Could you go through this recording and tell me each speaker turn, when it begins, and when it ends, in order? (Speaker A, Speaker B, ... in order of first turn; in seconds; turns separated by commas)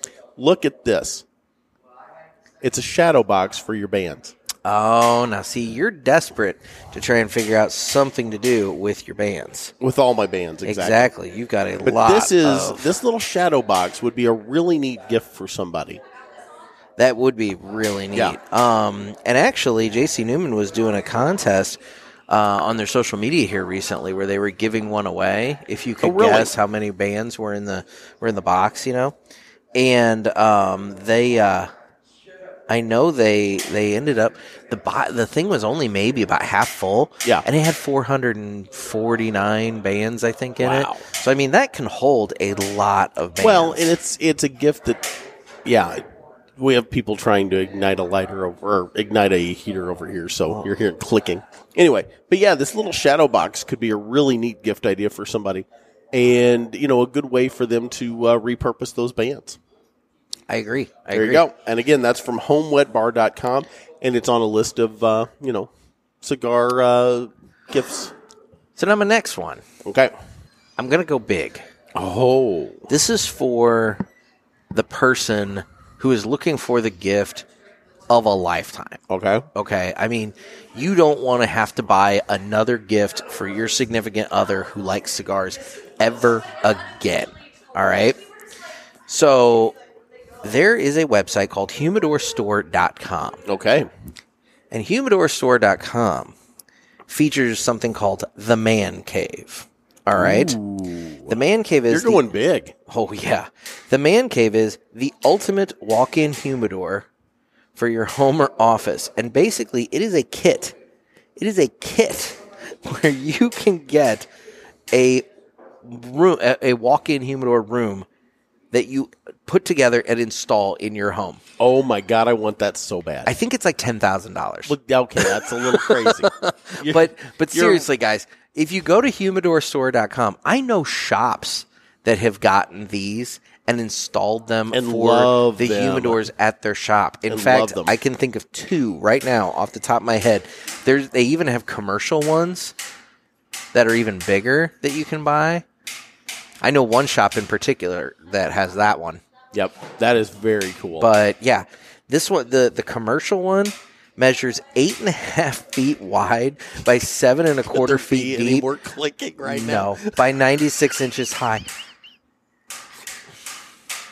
Speaker A: 0.3-1.2, Speaker A: 2.6-4.3, Speaker B: 4.6-9.7, Speaker A: 9.8-11.1, Speaker B: 10.6-12.9, Speaker A: 11.8-16.0, Speaker B: 17.0-29.1, Speaker A: 26.0-26.5, Speaker B: 29.7-31.7, Speaker B: 32.7-43.9, Speaker A: 40.6-41.1, Speaker A: 43.4-45.1, Speaker A: 45.6-46.0, Speaker A: 46.6-59.6, Speaker B: 60.5-61.5, Speaker A: 61.1-65.7, Speaker A: 66.2-68.1, Speaker B: 68.8-69.6, Speaker A: 69.8-70.1, Speaker B: 70.8-71.7, Speaker A: 71.9-72.9, Speaker B: 72.9-74.0, Speaker B: 74.7-77.5, Speaker B: 78.1-79.0, Speaker A: 79.1-79.5, Speaker B: 79.5-88.2, Speaker B: 89.1-89.8, Speaker B: 90.4-93.4, Speaker A: 93.5-93.9, Speaker B: 94.7-96.3, Speaker B: 97.1-100.6, Speaker A: 100.1-101.4, Speaker B: 101.3-102.2, Speaker A: 101.9-102.7, Speaker B: 102.9-107.1, Speaker B: 107.7-110.8, Speaker B: 111.4-114.3, Speaker B: 114.9-115.2, Speaker B: 115.8-118.1, Speaker B: 118.7-121.4, Speaker A: 121.6-123.3, Speaker B: 123.2-142.7, Speaker A: 124.7-127.8, Speaker A: 134.7-136.2, Speaker A: 137.3-137.9, Speaker B: 143.7-145.6, Speaker B: 146.6-149.2, Speaker A: 149.5-151.1, Speaker B: 151.0-158.7, Speaker A: 157.7-160.2, Speaker B: 159.4-161.6